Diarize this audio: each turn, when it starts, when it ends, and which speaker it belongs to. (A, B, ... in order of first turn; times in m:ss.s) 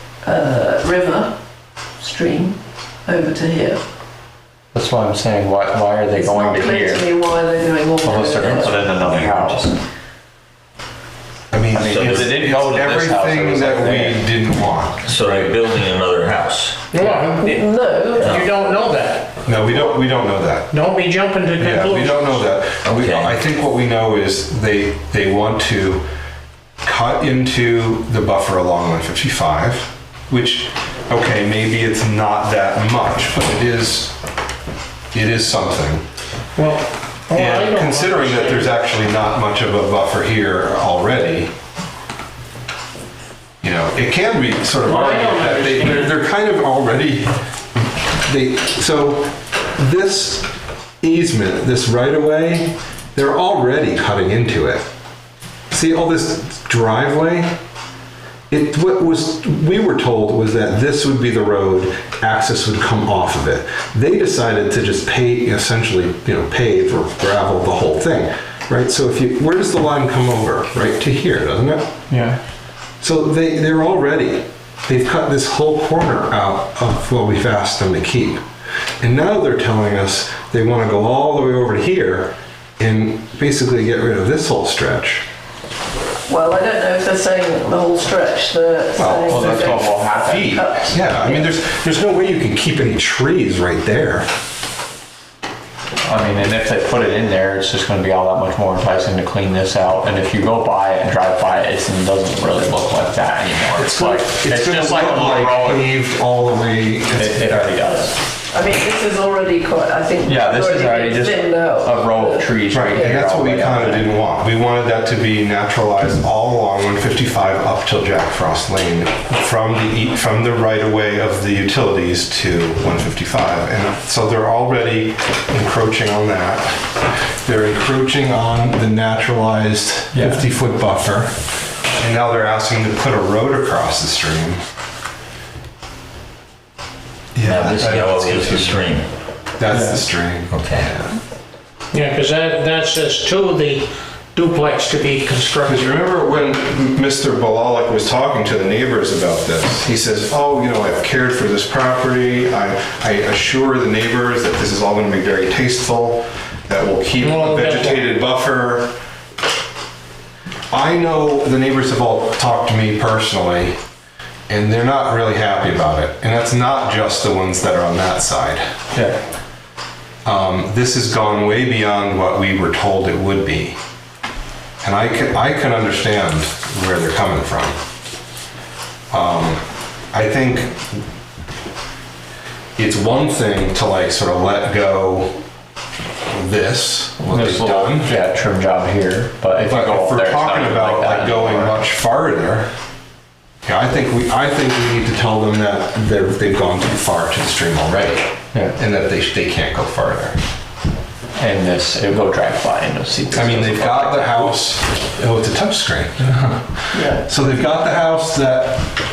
0:00.2-0:01.4 A
0:02.0-0:03.8 A
0:04.7-0:07.1 B
0:06.1-0:08.8 A
0:08.0-0:09.7 B
0:08.3-0:09.8 C
0:11.5-0:15.0 D
0:11.7-0:14.3 B
0:11.8-0:12.4 C
0:15.0-0:16.8 C
0:15.2-0:15.5 B
0:16.9-0:19.3 E
0:17.0-0:17.2 B
0:17.4-0:18.5 A
0:18.2-0:18.5 C
0:19.4-0:20.7 D
0:20.7-0:22.5 E
0:21.6-0:26.0 D
0:22.8-0:23.4 C
0:26.8-0:34.2 D
0:35.1-0:36.0 D
0:36.6-0:38.7 E
0:37.3-0:41.5 D
0:43.6-0:47.3 D
0:44.8-0:46.2 E
0:48.2-0:50.5 D
0:51.0-0:54.9 D
0:55.7-0:57.6 D
0:58.5-1:11.9 D
1:12.1-1:12.4 B
1:13.0-1:18.4 D
1:19.0-1:25.2 D
1:26.3-1:31.4 A
1:29.0-1:34.3 D
1:29.3-1:30.9 B
1:36.0-1:45.9 B
1:43.7-1:47.9 D
1:47.1-1:48.2 B
1:48.5-1:53.2 A
1:50.2-1:54.2 B
1:52.7-2:06.8 D
2:07.4-2:11.3 D
2:10.1-2:10.4 B
2:12.0-2:14.6 D
2:17.4-2:18.9 D
2:17.4-2:19.1 C
2:19.6-2:21.2 D
2:19.7-2:20.1 B
2:20.5-2:20.9 C
2:21.9-2:26.0 E
2:25.7-2:38.9 D
2:37.2-2:38.1 E
2:40.7-2:43.8 D
2:44.5-2:48.6 D
2:48.9-2:49.2 B
2:50.2-2:53.8 D
2:54.8-2:57.8 D
2:59.1-2:59.6 D
3:00.1-3:01.0 D
3:02.8-3:05.4 D
3:06.3-3:08.1 D
3:07.3-3:11.8 B
3:09.6-3:12.7 D
3:13.6-3:20.4 D
3:21.4-3:24.7 B
3:23.3-3:28.9 D
3:26.9-3:27.2 A